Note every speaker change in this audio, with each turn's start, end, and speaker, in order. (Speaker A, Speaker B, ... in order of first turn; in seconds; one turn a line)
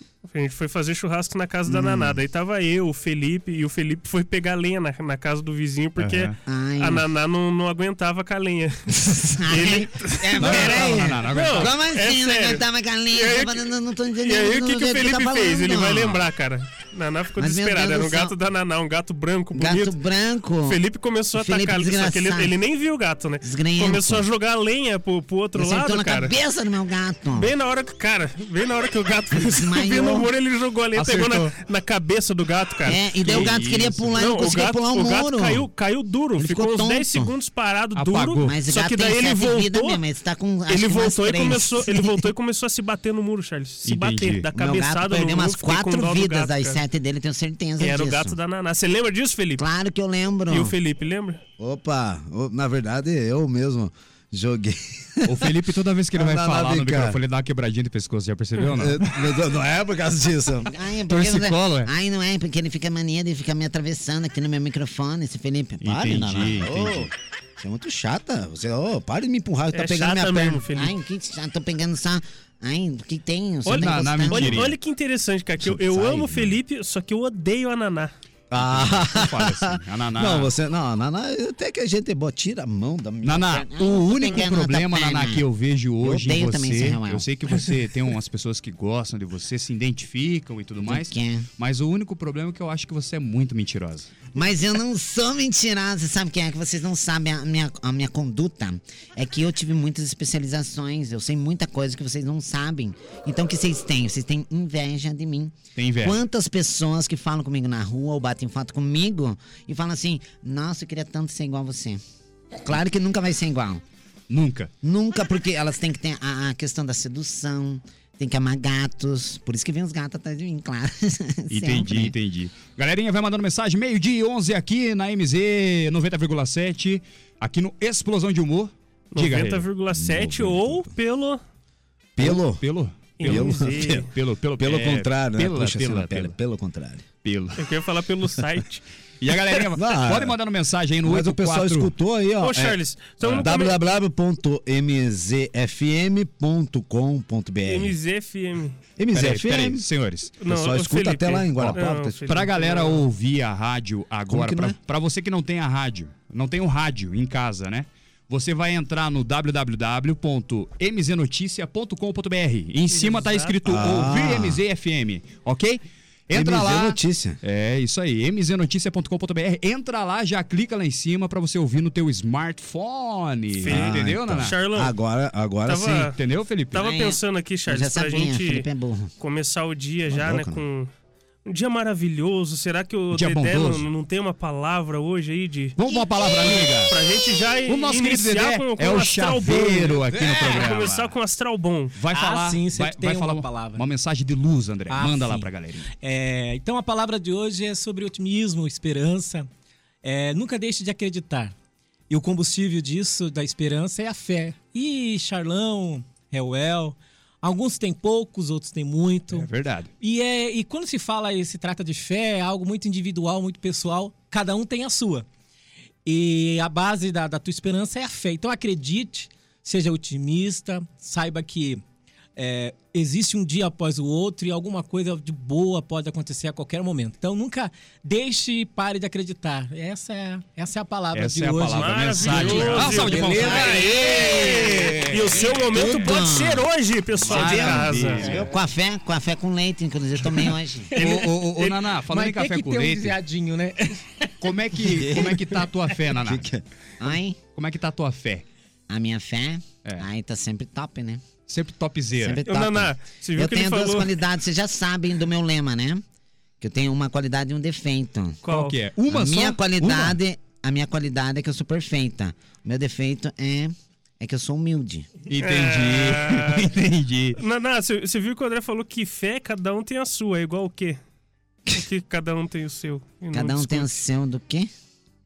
Speaker A: 0.2-13.6
Speaker B: 1.7-2.2
Speaker C: 6.0-6.3
Speaker B: 6.5-7.0
Speaker B: 9.4-16.3
Speaker C: 10.4-11.7
Speaker A: 14.2-20.0
Speaker B: 17.4-18.4
Speaker B: 19.5-20.8
Speaker A: 20.6-26.4
Speaker B: 21.3-22.5
Speaker B: 23.4-24.3
Speaker B: 25.5-27.5
Speaker A: 27.3-33.6
Speaker B: 29.3-30.3
Speaker C: 30.9-31.5
Speaker B: 32.9-35.6
Speaker C: 33.2-34.1
Speaker A: 34.1-40.0
Speaker B: 36.4-37.3
Speaker C: 37.9-38.5
Speaker B: 38.4-42.3
Speaker A: 40.7-46.8
Speaker C: 43.8-44.5
Speaker B: 44.5-48.4
Speaker A: 47.8-49.6
Speaker B: 49.6-50.7
Speaker A: 50.5-51.4
Speaker D: 51.6-55.5
Speaker C: 55.2-59.3
Speaker D: 56.1-57.2
Speaker D: 58.7-60.7
Speaker B: 60.6-66.9
Speaker C: 61.1-61.9
Speaker C: 65.8-67.1
Speaker D: 66.2-67.1
Speaker B: 67.6-68.1
Speaker D: 67.6-69.7
Speaker B: 69.7-74.7
Speaker A: 69.7-70.9
Speaker A: 73.7-78.1
Speaker C: 73.7-74.8
Speaker B: 75.9-76.4
Speaker D: 78.5-83.5
Speaker C: 78.5-80.5
Speaker C: 83.2-94.1
Speaker B: 83.4-85.4
Speaker B: 86.0-87.2
Speaker B: 90.8-91.5
Speaker B: 94.3-112.0
Speaker C: 105.7-106.2
Speaker B: 112.6-113.8
Speaker C: 114.3-114.7
Speaker B: 114.8-122.1
Speaker C: 121.5-129.7
Speaker A: 129.1-131.4
Speaker D: 129.9-130.9
Speaker D: 132.2-132.6
Speaker C: 132.2-136.3
Speaker A: 133.2-134.1
Speaker D: 133.2-134.1
Speaker D: 134.6-137.1
Speaker C: 137.2-137.7
Speaker A: 137.6-138.8
Speaker C: 139.2-141.9
Speaker D: 139.7-140.4
Speaker D: 141.0-142.8
Speaker A: 142.4-143.8
Speaker C: 143.2-143.5
Speaker D: 143.4-147.9
Speaker A: 147.6-148.8
Speaker D: 149.0-149.8
Speaker C: 149.1-150.4
Speaker A: 150.4-153.1
Speaker D: 150.4-152.2
Speaker C: 151.6-174.6
Speaker D: 154.3-154.7
Speaker A: 162.9-163.6
Speaker D: 163.7-164.6
Speaker D: 166.3-167.4
Speaker A: 173.5-174.9
Speaker D: 173.6-176.1
Speaker A: 175.6-176.2
Speaker C: 176.1-176.8
Speaker A: 176.7-178.7
Speaker B: 176.7-179.1
Speaker A: 179.2-180.9
Speaker B: 180.1-180.6
Speaker A: 181.5-192.0
Speaker C: 183.1-183.9
Speaker C: 185.8-187.0
Speaker C: 187.7-191.1
Speaker C: 191.9-195.9
Speaker E: 192.1-193.8
Speaker E: 194.9-199.5
Speaker E: 200.0-201.5
Speaker E: 202.1-209.5
Speaker C: 209.3-209.9
Speaker E: 210.0-215.2
Speaker E: 216.0-221.8
Speaker E: 222.3-234.2
Speaker C: 231.1-236.1
Speaker A: 231.7-238.5
Speaker B: 234.0-234.8
Speaker B: 235.7-236.7
Speaker C: 237.2-238.5
Speaker B: 237.2-240.9
Speaker A: 240.9-241.8
Speaker C: 241.0-243.2
Speaker E: 242.1-244.3
Speaker C: 244.4-246.4
Speaker D: 244.9-245.5
Speaker E: 245.0-245.3
Speaker D: 246.1-246.6
Speaker B: 247.0-247.4
Speaker C: 247.5-248.4
Speaker B: 248.9-251.2
Speaker C: 251.5-252.4
Speaker B: 252.2-256.0
Speaker A: 252.4-254.1
Speaker B: 256.6-258.4
Speaker A: 258.4-258.8
Speaker C: 258.5-260.2
Speaker B: 259.1-265.1
Speaker C: 265.3-267.4
Speaker A: 265.4-266.7
Speaker A: 267.4-271.0
Speaker A: 271.7-274.0
Speaker B: 273.3-274.7